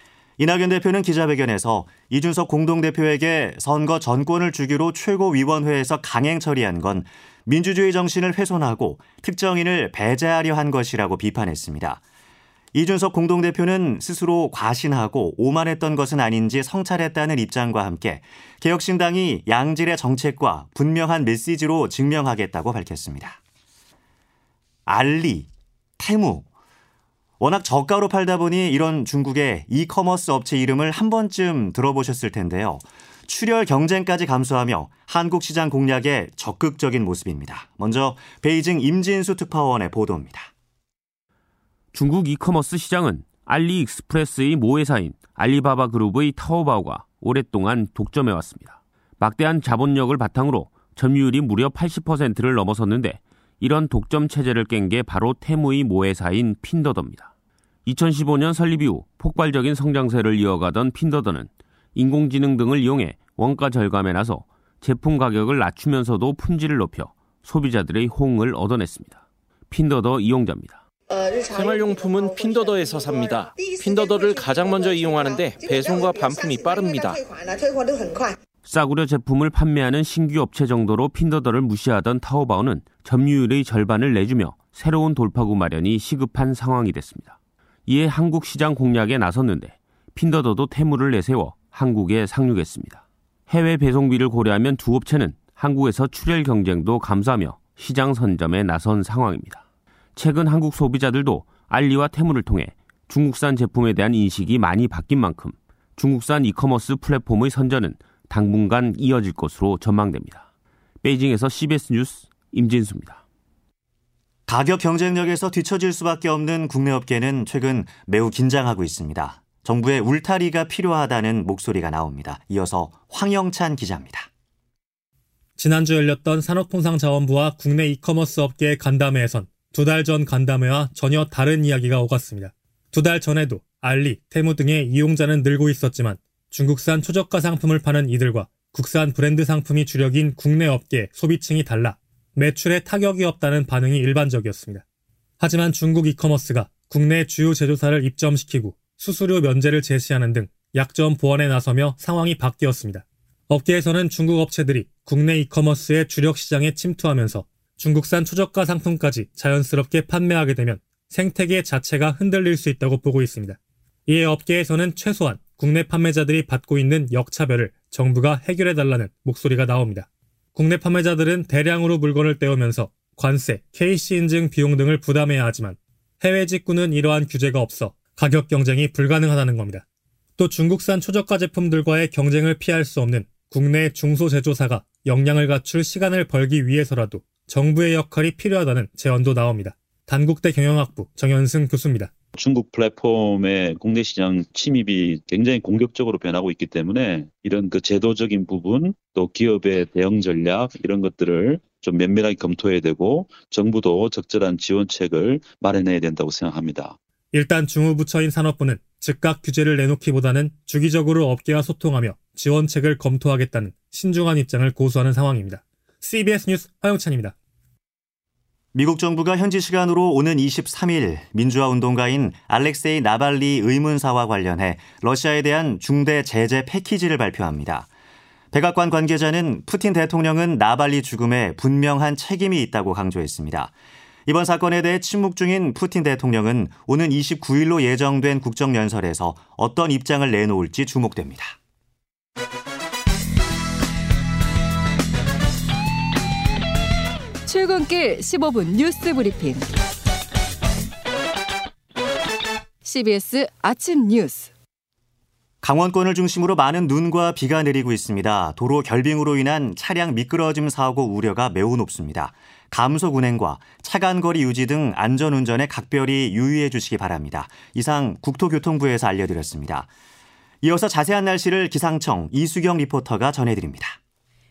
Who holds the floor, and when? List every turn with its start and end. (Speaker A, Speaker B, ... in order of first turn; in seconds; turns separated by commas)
Speaker A: 0.4-12.0, Speaker A: 12.7-23.4, Speaker A: 24.9-25.5, Speaker A: 26.0-26.4, Speaker A: 27.4-40.5, Speaker B: 41.9-57.3, Speaker B: 57.9-70.8, Speaker C: 71.1-78.3, Speaker B: 78.6-87.3, Speaker B: 87.9-99.6, Speaker B: 100.2-110.4, Speaker B: 111.0-113.2, Speaker A: 114.5-124.3, Speaker D: 125.6-144.8, Speaker D: 145.4-179.8, Speaker D: 180.4-192.1, Speaker E: 192.3-206.9, Speaker D: 207.3-217.3, Speaker A: 218.7-227.9, Speaker A: 228.5-233.7, Speaker A: 234.2-241.5, Speaker F: 247.4-249.7, Speaker F: 252.8-254.5, Speaker A: 255.6-269.9, Speaker A: 270.6-273.9